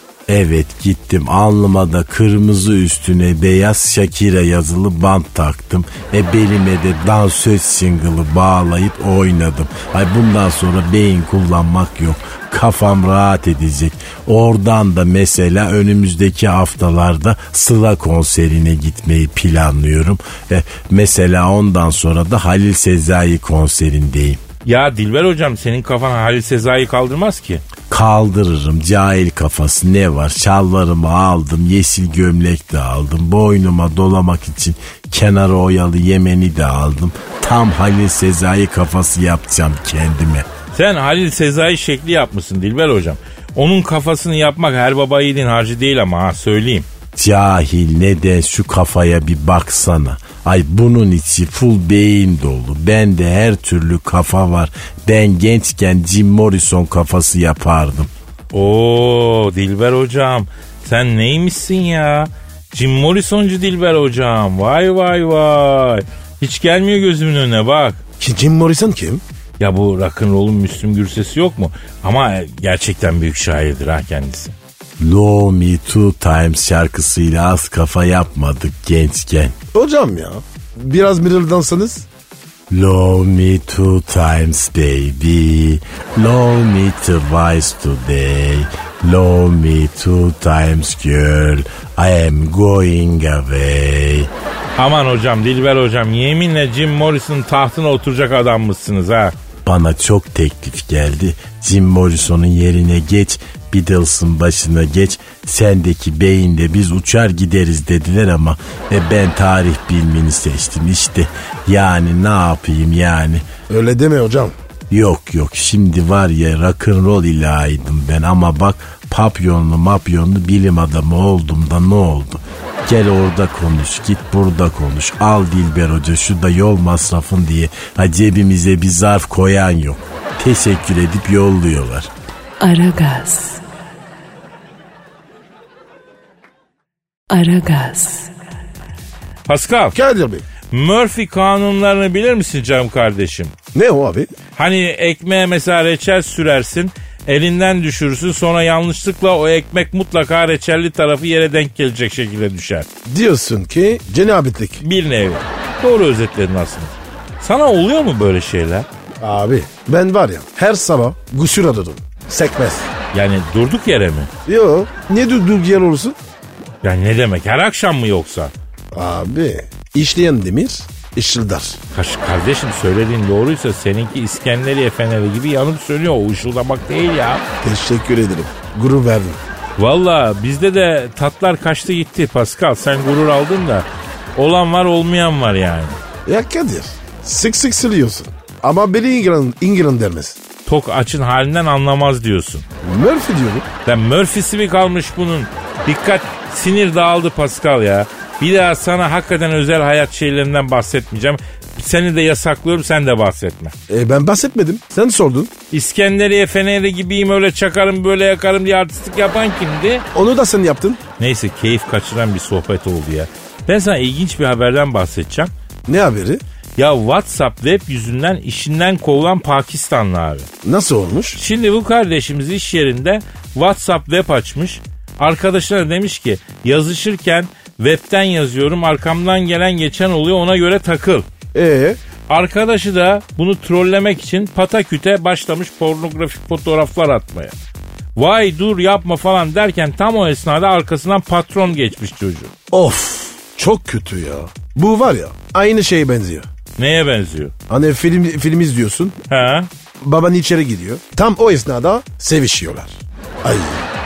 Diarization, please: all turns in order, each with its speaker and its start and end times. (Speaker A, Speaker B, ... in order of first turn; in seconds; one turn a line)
Speaker A: 0.3-24.4
Speaker B: 24.6-27.6
Speaker A: 27.9-40.5
Speaker B: 40.7-46.9
Speaker A: 47.1-58.1
Speaker B: 58.5-68.0
Speaker C: 68.2-69.2
Speaker B: 69.6-74.5
Speaker A: 75.0-79.5
Speaker C: 79.7-82.0
Speaker A: 82.7-94.3
Speaker B: 94.8-99.3
Speaker A: 99.6-113.4
Speaker C: 113.7-114.5
Speaker A: 114.9-132.1
Speaker D: 132.6-133.6
Speaker D: 137.3-138.3
Speaker B: 139.5-139.9
Speaker C: 139.9-140.4
Speaker B: 140.7-143.5
Speaker C: 143.7-144.3
Speaker B: 144.6-152.9
Speaker C: 153.1-154.8
Speaker B: 154.8-158.9
Speaker C: 159.2-162.9
Speaker B: 163.1-164.3
Speaker C: 164.4-166.2
Speaker B: 166.8-168.5
Speaker C: 168.9-171.8
Speaker B: 171.9-177.4
Speaker C: 177.6-179.4
Speaker B: 179.8-186.0
Speaker C: 186.2-190.4
Speaker B: 190.7-192.6
Speaker C: 192.8-193.7
Speaker B: 193.8-203.7
Speaker C: 203.9-205.5
Speaker B: 205.7-210.1
Speaker C: 210.1-211.0
Speaker B: 211.2-215.5
Speaker C: 215.9-216.4
Speaker B: 216.8-220.5
Speaker C: 220.6-221.4
Speaker B: 221.3-231.3
Speaker C: 231.5-232.0
Speaker B: 232.3-237.5
Speaker B: 238.2-242.5
Speaker C: 242.7-246.5
Speaker B: 246.8-247.5
Speaker C: 247.7-249.2
Speaker B: 249.3-249.7
Speaker C: 250.0-253.9